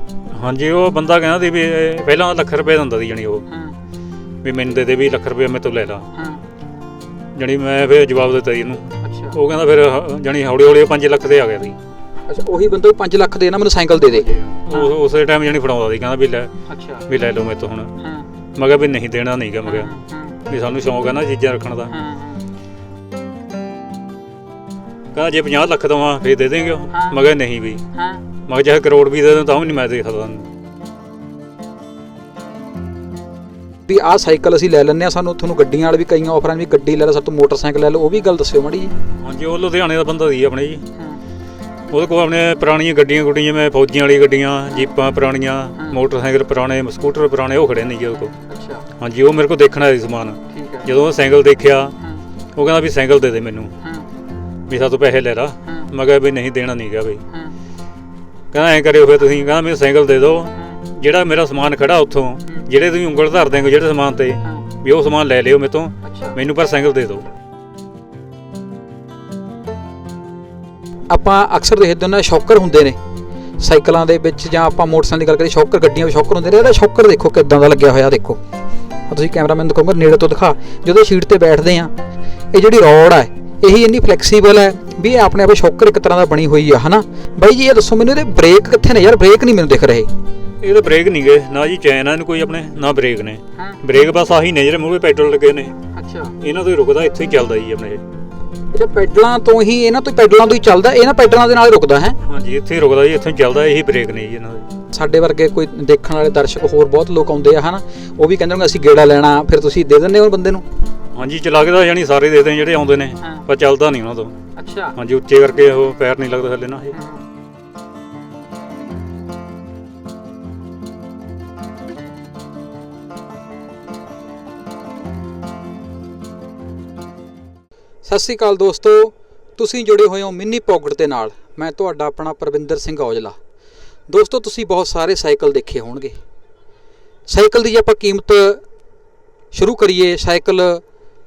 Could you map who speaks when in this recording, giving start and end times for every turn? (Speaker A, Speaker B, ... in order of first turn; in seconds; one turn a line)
Speaker A: 0.3-3.5
Speaker B: 3.5-3.8
Speaker A: 4.4-6.1
Speaker B: 6.1-6.4
Speaker A: 7.3-11.8
Speaker B: 9.0-9.4
Speaker B: 12.3-14.9
Speaker A: 14.1-16.5
Speaker B: 16.7-17.0
Speaker A: 17.1-17.9
Speaker B: 18.0-18.3
Speaker A: 18.6-21.9
Speaker B: 19.6-20.4
Speaker B: 21.9-22.4
Speaker A: 25.1-27.8
Speaker B: 27.9-28.2
Speaker A: 28.4-30.5
Speaker B: 33.9-38.9
Speaker A: 39.1-40.8
Speaker B: 40.9-41.2
Speaker A: 41.9-48.3
Speaker B: 48.5-48.9
Speaker A: 49.0-52.0
Speaker B: 50.5-50.9
Speaker A: 52.5-53.7
Speaker B: 53.8-54.1
Speaker A: 54.7-57.2
Speaker B: 57.3-57.5
Speaker A: 58.5-67.2
Speaker B: 60.5-60.8
Speaker B: 66.0-66.3
Speaker B: 71.1-73.0
Speaker B: 73.6-78.4
Speaker B: 79.1-81.9
Speaker B: 82.5-90.1
Speaker A: 90.6-95.7
Speaker B: 95.9-96.3
Speaker A: 96.4-98.0
Speaker B: 98.7-102.2
Speaker A: 102.2-104.7
Speaker B: 104.9-110.6
Speaker A: 111.1-114.3
Speaker B: 114.5-114.9
Speaker A: 114.9-117.0
Speaker B: 116.9-117.2
Speaker B: 128.0-133.3
Speaker B: 134.1-136.2
Speaker B: 137.3-138.6
Speaker B: 139.5-140.8